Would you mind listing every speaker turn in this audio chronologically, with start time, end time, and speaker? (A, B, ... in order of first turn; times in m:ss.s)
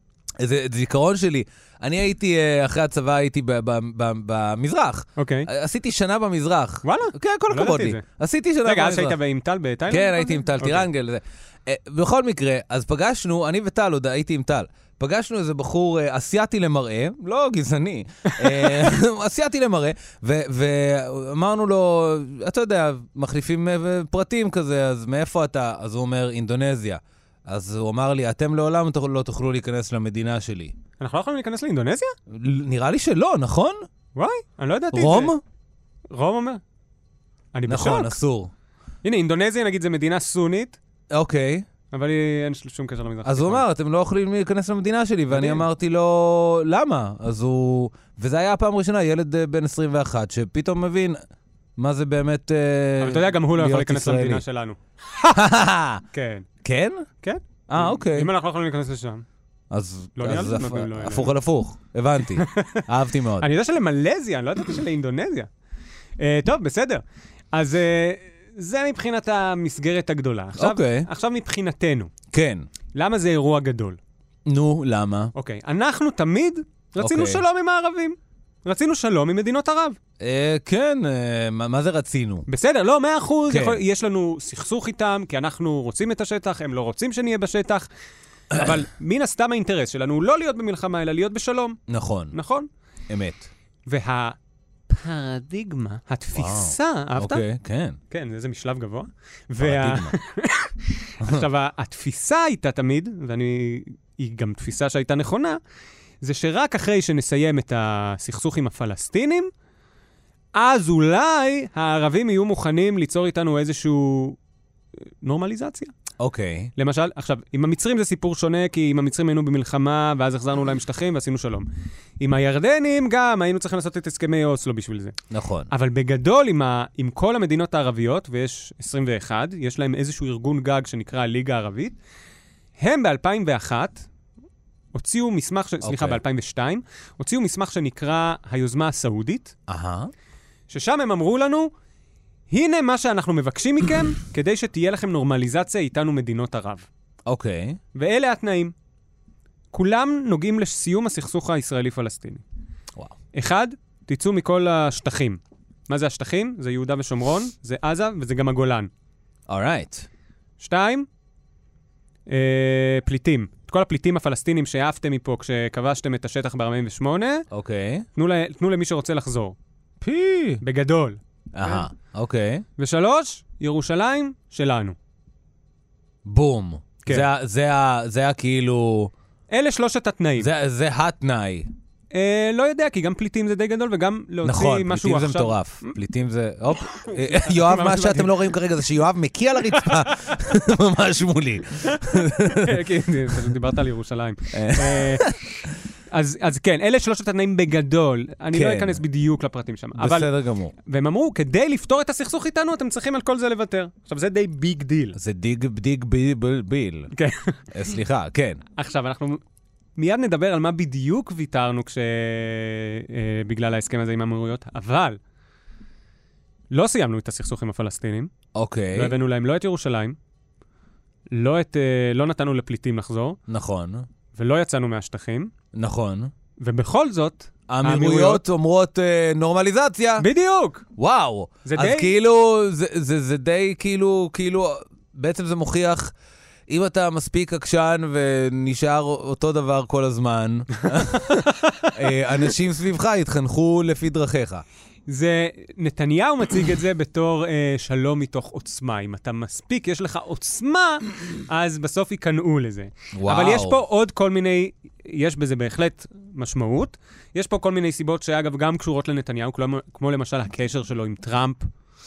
0:00.4-0:09.2 A
0:05.2-0:05.5 B
0:06.8-0:08.0 B
0:08.6-0:10.9 B
0:09.9-0:30.7 A
0:18.3-0:18.7 B
0:31.0-0:32.1 B
0:32.3-0:33.9 A
0:34.1-0:35.4 B
0:34.9-0:35.4 A
0:36.1-0:36.6 B
0:37.5-0:38.2 B
0:37.7-0:38.5 A
0:39.0-0:40.8 B
0:41.1-0:41.6 A
0:41.9-0:43.6 B
0:43.2-0:51.2 A
0:45.3-0:45.6 B
0:51.8-0:54.4 A
0:53.0-0:55.4 B
0:55.3-0:56.0 A
0:56.1-0:56.5 B
0:56.6-0:57.0 A
0:57.2-0:59.2 B
0:57.7-0:58.3 A
0:59.7-1:03.5 A
1:00.2-1:01.3 B
1:02.4-1:02.8 B
1:03.4-1:05.5 B
1:06.2-1:12.1 B
1:10.6-1:11.1 A
1:12.3-1:12.6 A
1:13.0-1:14.0 B
1:14.5-1:15.3 A
1:15.4-1:20.0 B
1:17.0-1:17.4 A
1:20.2-1:22.5 A
1:22.5-1:27.9 B
1:23.5-1:23.8 A
1:28.5-1:31.8 B
1:31.9-1:32.4 A
1:32.3-1:32.7 B
1:33.1-1:33.5 A
1:33.9-1:34.4 B
1:34.9-1:37.4 B
1:36.4-1:38.0 A
1:38.1-1:45.6 B
1:39.6-1:40.1 A
1:41.2-1:41.5 A
1:46.2-1:49.5 B
1:50.6-1:54.4 B
1:55.2-1:55.9 B
1:56.2-1:56.7 A
1:56.8-2:01.7 B
2:02.2-2:05.1 B
2:05.3-2:05.7 A
2:05.7-2:12.0 B
2:12.8-2:14.1 B
2:14.9-2:19.5 B
2:15.8-2:16.2 A
2:19.7-2:20.1 A
2:20.7-2:21.7 B
2:22.5-2:26.9 B
2:27.3-2:27.8 A
2:28.0-2:28.7 B
2:29.7-2:32.4 B
2:33.3-2:38.9 B
2:39.5-2:40.1 A
2:40.6-2:41.1 B
2:42.3-2:47.4 B
2:47.5-2:48.1 A
2:48.2-2:49.6 B
2:50.0-2:50.6 A
2:50.6-2:51.9 B
2:51.5-2:52.6 A
2:52.8-2:55.0 B
2:56.2-2:59.1 A
2:59.5-3:00.5 B
3:00.4-3:01.7 A
3:02.1-3:05.9 B
3:04.4-3:12.8 A
3:06.9-3:08.3 B
3:09.7-3:10.0 B
3:11.9-3:15.3 B
3:14.5-3:15.7 A
3:16.1-3:20.3 B
3:18.5-3:19.0 A
3:20.0-3:20.7 A
3:20.8-3:25.2 B
3:25.2-3:27.1 A
3:27.1-3:27.6 B
3:27.7-3:28.6 A
3:28.8-3:29.4 B
3:30.0-3:35.2 B
3:36.7-3:38.3 B
3:38.6-3:39.1 A
3:38.9-3:40.2 B
3:41.3-3:43.4 B
3:43.5-3:44.1 A
3:44.3-3:45.5 B
3:45.7-3:46.3 A
3:46.6-3:48.4 B
3:47.7-3:50.3 A
3:50.2-3:50.8 B
3:51.0-3:56.1 A
3:51.6-3:52.1 B
3:56.7-4:04.6 A
4:01.4-4:01.9 B
4:05.1-4:21.7 B
4:13.1-4:13.8 A